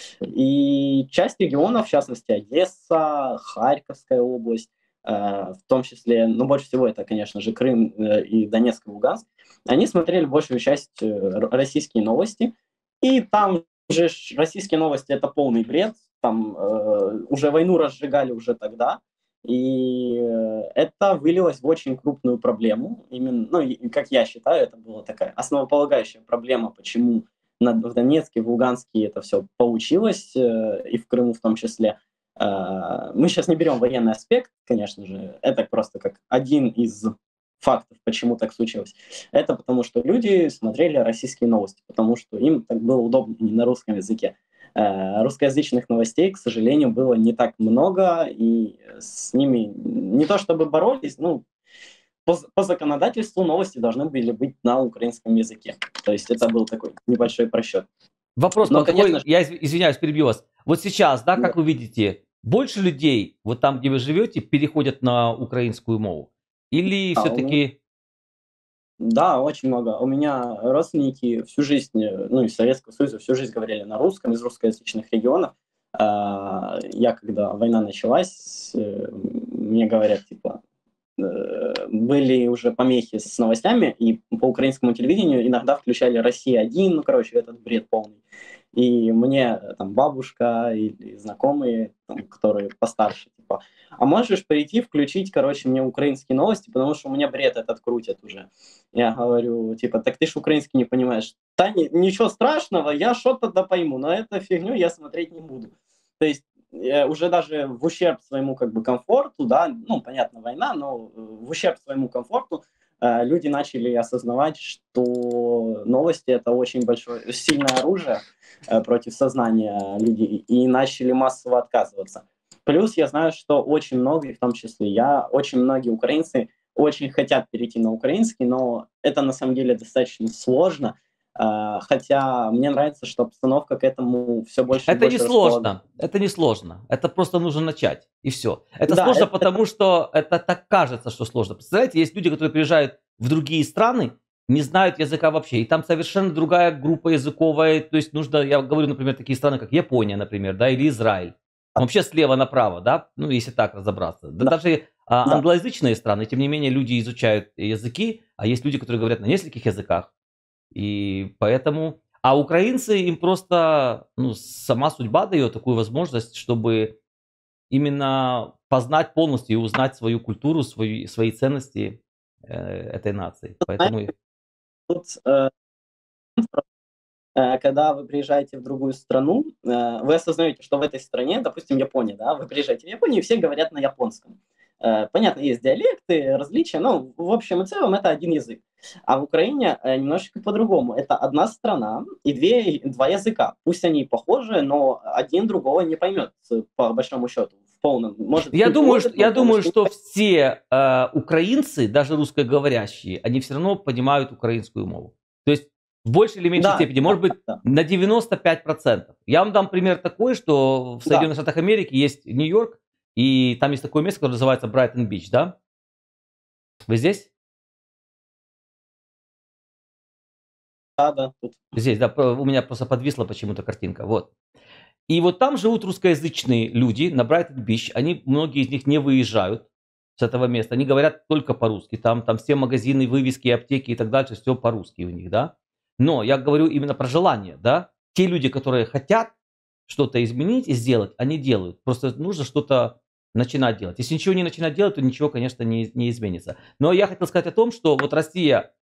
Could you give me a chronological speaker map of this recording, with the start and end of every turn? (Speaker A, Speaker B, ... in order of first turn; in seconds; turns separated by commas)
Speaker A: 0.3-51.4, Speaker A: 52.2-57.8, Speaker B: 58.4-67.8, Speaker A: 58.7-59.2, Speaker A: 67.2-67.6, Speaker A: 69.0-80.6, Speaker A: 81.2-88.2, Speaker A: 88.7-135.7, Speaker B: 134.9-160.1, Speaker A: 138.9-139.5, Speaker B: 160.7-166.9, Speaker B: 167.7-174.1, Speaker A: 174.9-175.5, Speaker A: 177.3-199.9, Speaker B: 198.5-215.6, Speaker A: 206.6-207.6, Speaker B: 216.9-217.3, Speaker A: 221.0-221.6, Speaker B: 221.8-224.3, Speaker B: 225.1-229.7, Speaker B: 230.2-239.3, Speaker B: 239.9-248.7